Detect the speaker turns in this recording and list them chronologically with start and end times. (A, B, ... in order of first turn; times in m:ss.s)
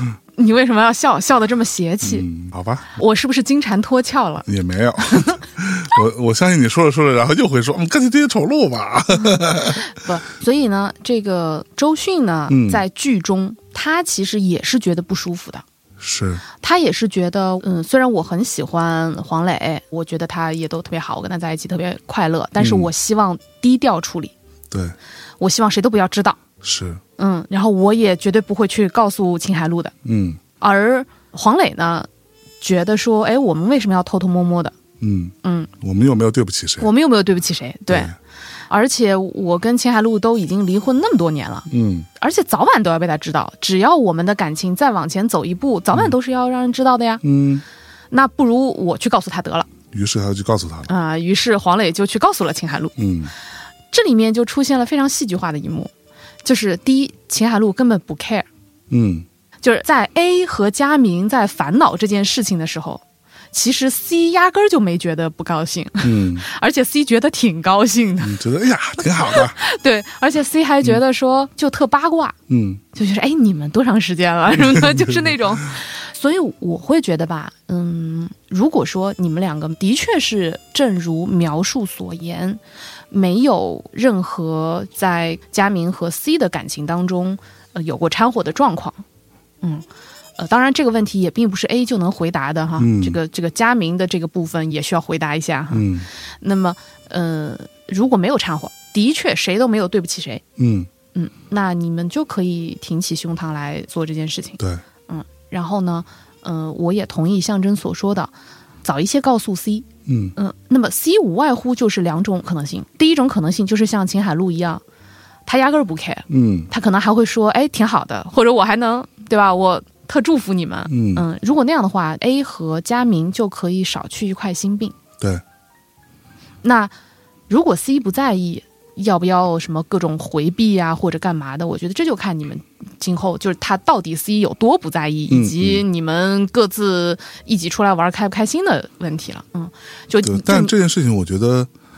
0:00.4-0:02.3 A
0:02.0-0:02.9 B
0:02.9-0:04.5 A
0:04.5-0:09.9 B
0:05.1-0:05.4 A
0:09.3-0:15.6 A
0:12.5-0:12.8 B
0:16.0-0:16.4 B
0:16.6-0:24.3 A
0:22.6-0:22.9 B
0:24.7-0:25.0 B
0:25.4-0:26.4 A
0:26.6-0:27.0 B
0:27.2-0:29.9 A
0:30.0-0:30.4 B
0:30.6-0:32.1 A
0:32.6-0:34.7 A
0:35.0-0:36.9 B
0:35.4-0:35.7 A
0:36.8-0:38.1 A
0:37.9-0:38.1 B
0:38.7-0:47.2 A
0:41.7-0:42.1 B
0:47.2-0:47.6 B
0:48.1-0:49.7 A
0:49.9-0:50.9 B
0:50.9-0:53.0 A
0:53.0-0:53.3 B
0:53.9-0:55.9 A
0:56.4-0:58.5 A
0:58.9-0:59.3 B
0:59.6-1:08.4 A
1:06.0-1:06.5 B
1:08.2-1:09.6 B
1:09.2-1:12.4 A
1:12.5-1:12.8 B
1:12.9-1:22.6 A
1:14.7-1:15.1 B
1:23.1-1:29.0 A
1:30.4-1:35.9 A
1:32.8-1:33.2 B
1:35.7-1:36.1 B
1:36.4-1:40.4 A
1:40.6-1:40.9 B
1:41.1-1:48.3 A
1:48.8-1:54.8 A
1:50.1-1:50.3 B
1:55.5-2:05.0 A
1:56.3-1:56.7 B
2:00.9-2:01.2 B
2:06.6-2:06.9 A
2:07.5-2:20.7 A
2:15.3-2:15.8 B
2:20.2-2:21.7 B